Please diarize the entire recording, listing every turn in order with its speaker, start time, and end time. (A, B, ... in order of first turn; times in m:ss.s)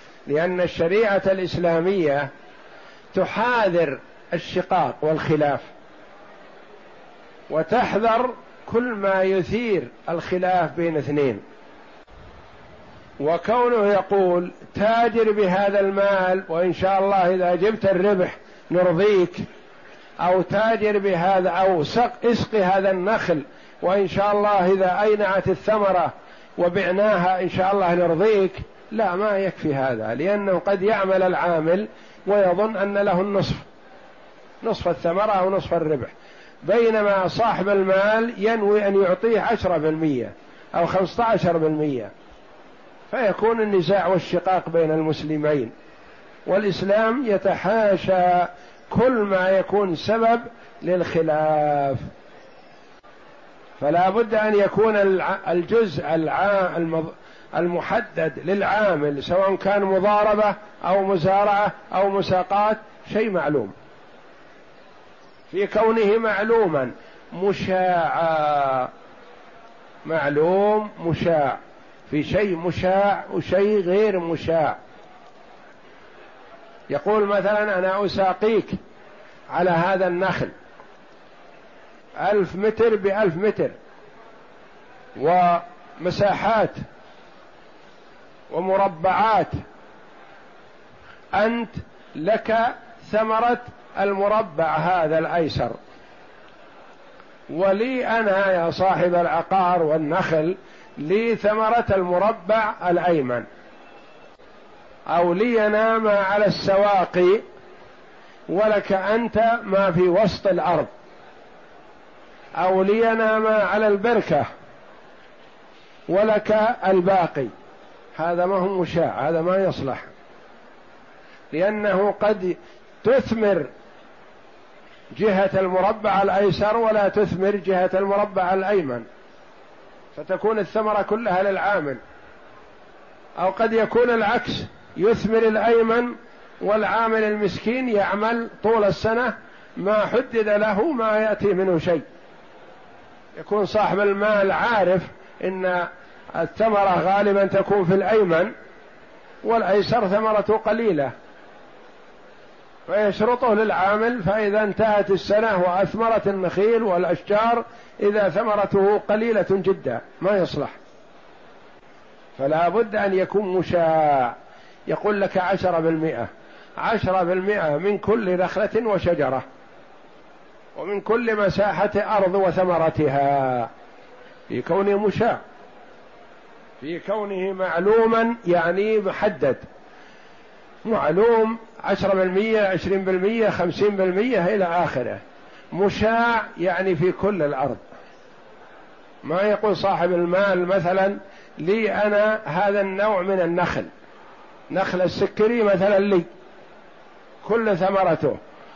0:00.3-0:02.3 A
0:03.1-0:05.7 A
0:07.5-0:11.4 A
0:13.2-0:19.4 A
0:20.2-0:33.7 A
0:34.6-0:36.1 A
0:36.6-0:42.1 A
0:43.1-0:45.7 A
0:46.4-0:52.1 A
0:53.8-1:03.7 A
1:05.5-1:08.9 A
1:10.0-1:14.8 A
1:16.9-1:18.8 A
1:19.5-1:20.5 A
1:22.2-1:23.7 A
1:25.2-1:26.8 A
1:28.5-1:29.5 A
1:31.3-1:35.8 A
1:37.5-1:43.4 A
1:45.1-1:47.4 A
1:48.5-1:50.9 A
1:52.6-1:54.4 A
1:56.1-1:57.5 A
1:58.2-2:00.1 A
2:01.5-2:03.7 A
2:05.1-2:09.0 A
2:10.1-2:12.0 A
2:13.4-2:22.0 A
2:23.4-2:28.5 A
2:29.4-2:31.1 A
2:32.9-2:40.7 A
2:42.4-2:44.4 A
2:44.9-2:49.4 A
2:50.8-2:53.7 A
2:54.5-2:55.4 A
2:56.8-2:59.6 A
3:00.8-3:05.2 A
3:05.7-3:07.8 A
3:09.2-3:13.9 A
3:14.7-3:16.3 A
3:17.4-3:18.4 A